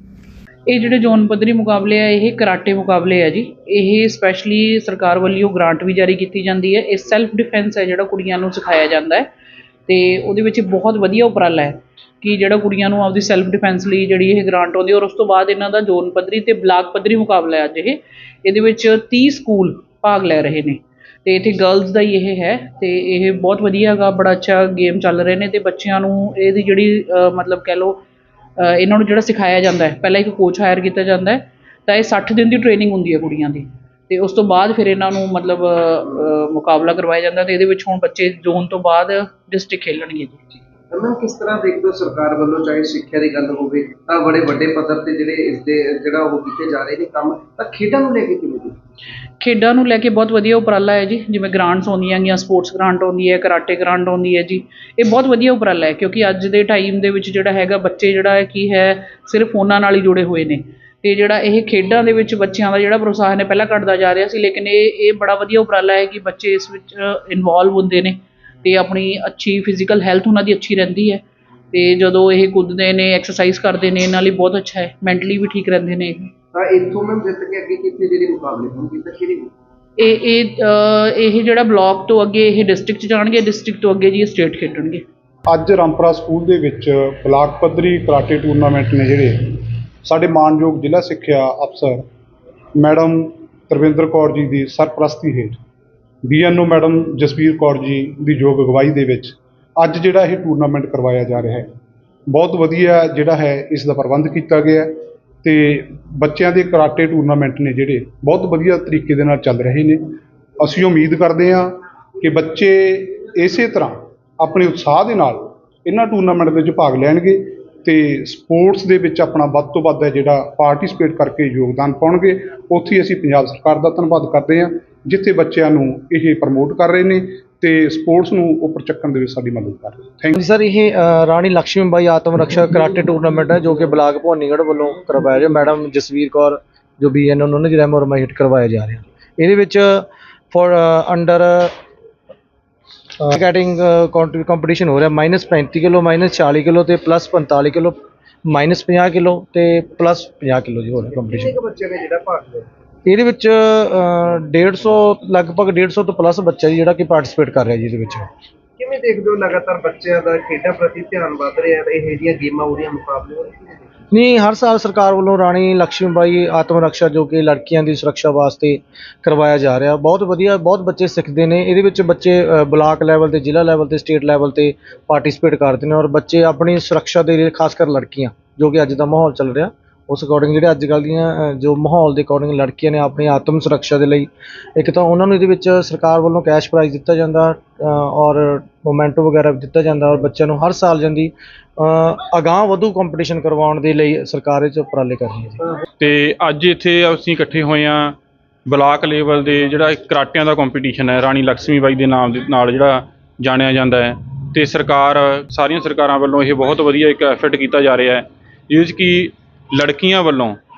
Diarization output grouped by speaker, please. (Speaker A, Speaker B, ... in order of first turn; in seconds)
Speaker A: 0.7-9.3, 9.9-28.0, 28.6-40.4, 49.4-76.3, 80.0-85.0
Speaker B: 40.9-48.8, 76.5-79.5, 151.1-152.7, 158.8-164.0
Speaker C: 85.5-92.0, 92.8-95.6, 96.2-101.7, 102.3-130.3
Speaker D: 130.3-141.8, 143.2-151.6, 153.1-158.3, 164.1-195.7
Speaker E: 196.0-210.6